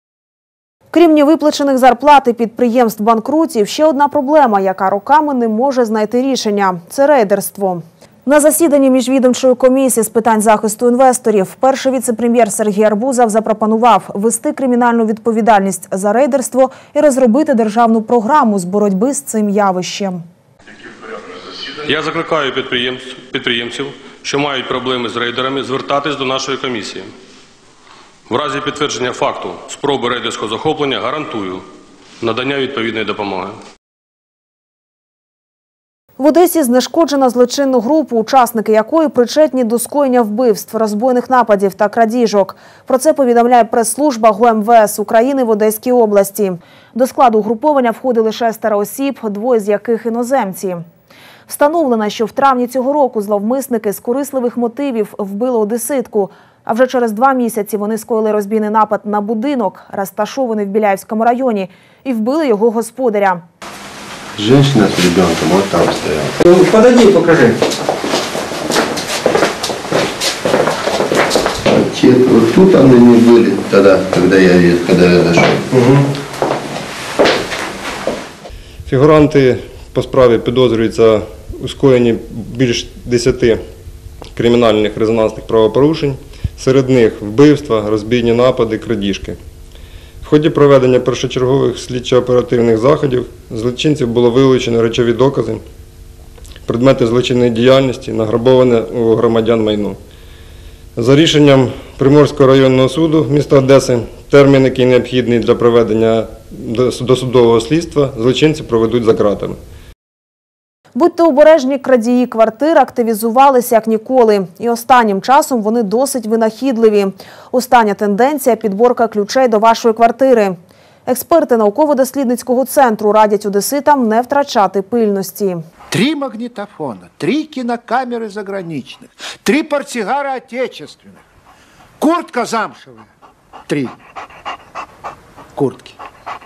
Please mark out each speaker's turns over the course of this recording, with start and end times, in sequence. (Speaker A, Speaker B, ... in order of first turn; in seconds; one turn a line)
Speaker A: 0.9-20.2
Speaker B: 21.9-27.1
Speaker B: 28.3-31.6
Speaker B: 32.2-33.5
Speaker A: 36.2-50.9
Speaker A: 51.5-63.4
Speaker C: 64.4-67.5
Speaker C: 71.7-75.6
Speaker D: 78.9-83.6
Speaker D: 84.4-89.4
Speaker D: 90.2-95.6
Speaker D: 96.7-100.0
Speaker D: 101.0-109.6
Speaker A: 111.0-120.6
Speaker A: 121.1-125.6
Speaker E: 125.9-131.2
Speaker E: 132.0-133.0
Speaker E: 133.7-133.9
Speaker E: 135.6-135.9